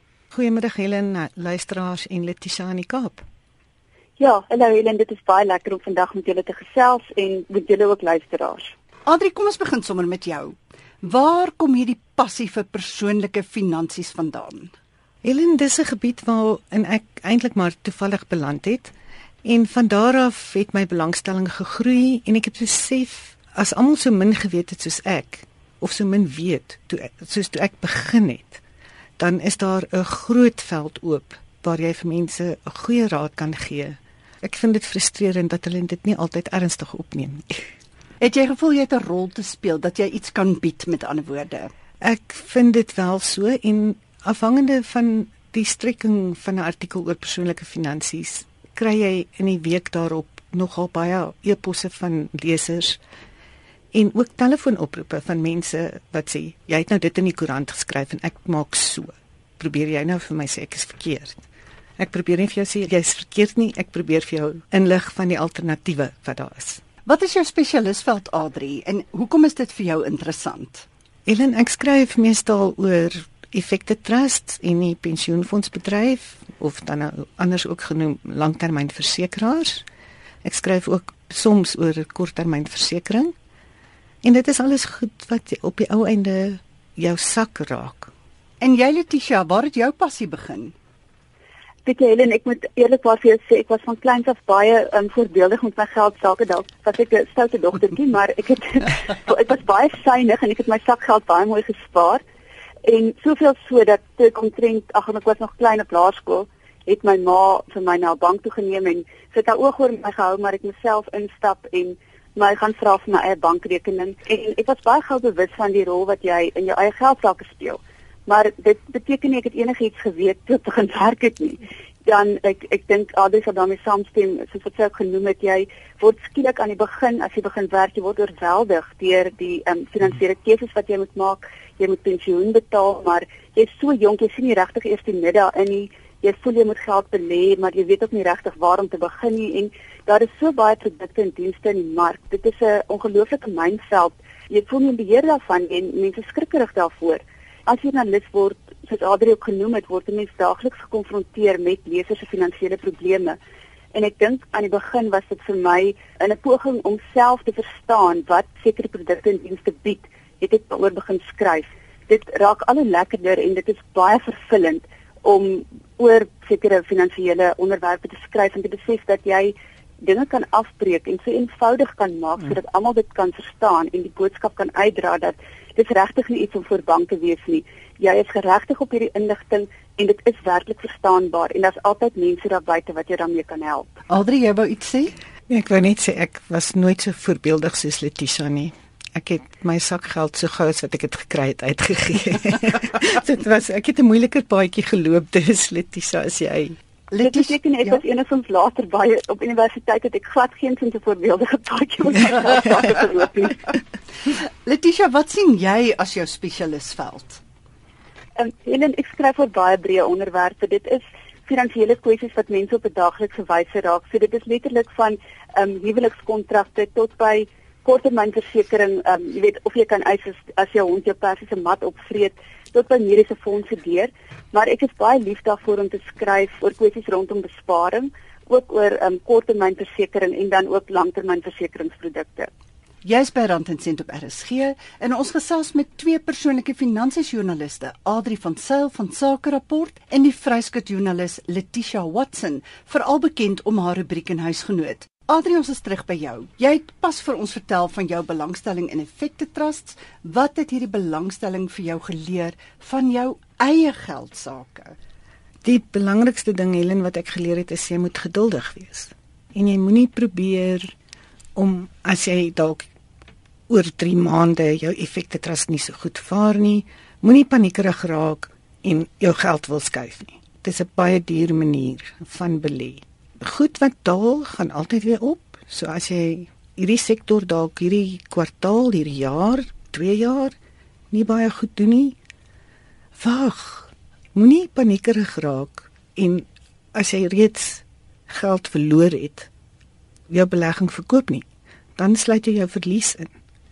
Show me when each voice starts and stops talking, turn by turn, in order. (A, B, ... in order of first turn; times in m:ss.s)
0:00.3-0:03.2 A
0:04.2-0:08.7 B
0:09.1-0:14.7 C
0:15.2-0:18.9 A
0:19.4-0:28.6 A
0:29.2-0:37.7 A
0:38.2-0:41.7 C
0:42.0-0:53.0 A
0:53.9-1:01.4 A
1:02.0-1:06.8 A
1:07.1-1:10.9 C
1:11.3-1:19.8 A
1:20.4-1:23.3 A
1:24.2-1:28.1 A
1:28.6-1:30.7 C
1:31.8-1:42.2 B
1:42.8-2:33.4 B
2:33.9-3:04.0 B
3:04.1-3:05.1 C
3:05.5-3:16.8 A
3:17.1-3:18.0 C
3:17.2-3:23.6 B
3:24.3-3:27.4 C
3:28.4-3:52.5 B
3:53.0-4:15.0 C
4:15.6-4:20.9 A
4:21.6-4:22.9 A
4:23.7-4:40.6 A
4:41.1-4:42.2 A
4:43.2-4:49.5 A
4:50.3-4:51.4 A
4:52.0-4:53.3 A